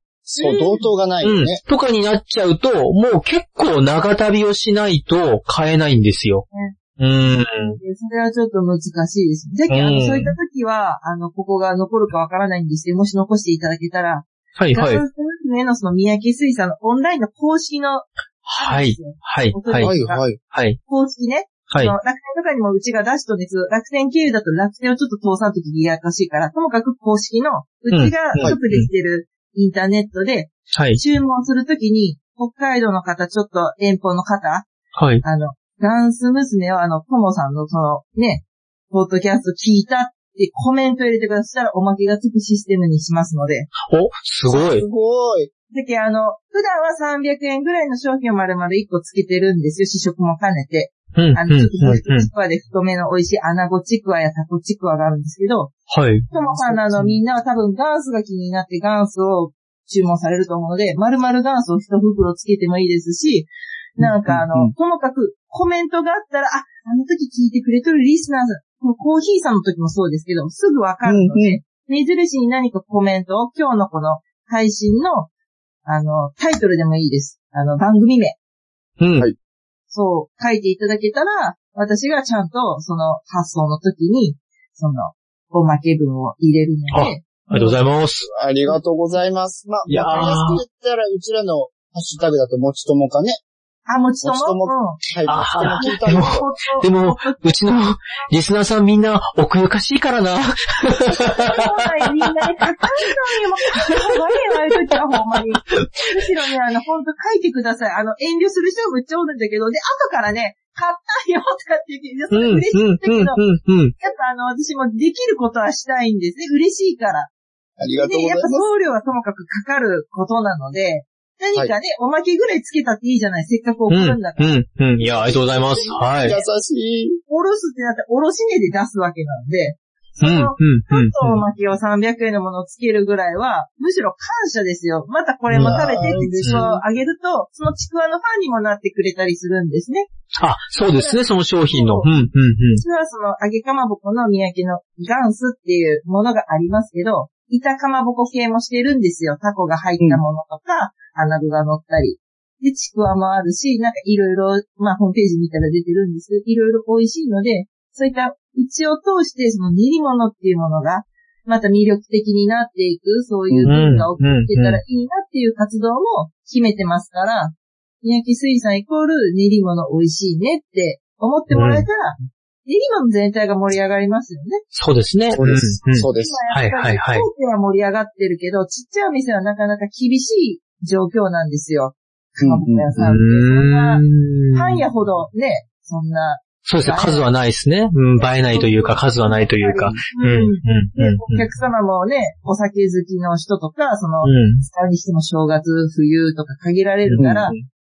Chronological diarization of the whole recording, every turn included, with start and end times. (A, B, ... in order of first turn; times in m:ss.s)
0:00.2-0:01.6 A
0:00.4-0:00.8 B
0:01.2-0:06.4 C
0:07.0-0:07.8 C
0:07.6-0:20.2 B
0:09.7-0:10.3 C
0:14.6-0:15.0 C
0:18.5-0:20.8 C
0:19.8-0:20.4 A
0:20.8-0:34.7 B
0:27.9-0:28.9 C
0:30.7-0:31.0 C
0:34.9-0:35.2 C
0:35.2-0:43.7 B
0:43.8-0:44.8 C
0:44.5-0:45.5 A
0:45.7-0:55.7 B
0:51.2-0:52.3 C
0:55.9-0:56.2 C
0:56.3-1:15.3 B
0:56.3-0:57.2 A
1:04.0-1:04.7 A
1:11.0-1:11.6 A
1:15.8-1:18.4 B
1:19.0-1:19.3 C
1:19.9-1:27.7 B
1:26.9-1:28.3 C
1:28.2-1:33.4 A
1:29.9-1:30.6 C
1:33.9-1:35.0 B
1:34.2-1:36.4 A
1:35.2-1:42.3 C
1:35.8-1:37.5 B
1:41.1-1:53.4 B
1:45.7-1:46.0 C
1:52.3-1:53.9 C
1:54.0-1:57.3 B
1:57.8-1:58.7 A
1:58.0-2:04.5 B
2:03.9-2:06.4 C
2:05.0-2:07.2 A
2:07.3-2:20.1 B
2:10.2-2:11.4 C
2:15.5-2:16.8 A
2:15.6-2:16.6 C
2:20.4-2:22.8 C
2:20.8-2:22.1 B
2:22.8-2:54.6 B
2:43.6-2:44.8 C
2:51.5-2:51.8 C
2:54.7-2:57.2 C
2:55.3-2:56.4 A
2:55.9-3:07.3 B
3:02.4-3:03.0 A
3:03.0-3:04.8 C
3:06.6-3:11.5 C
3:08.2-3:17.6 B
3:14.2-3:14.6 C
3:17.1-3:17.6 C
3:17.1-3:17.5 A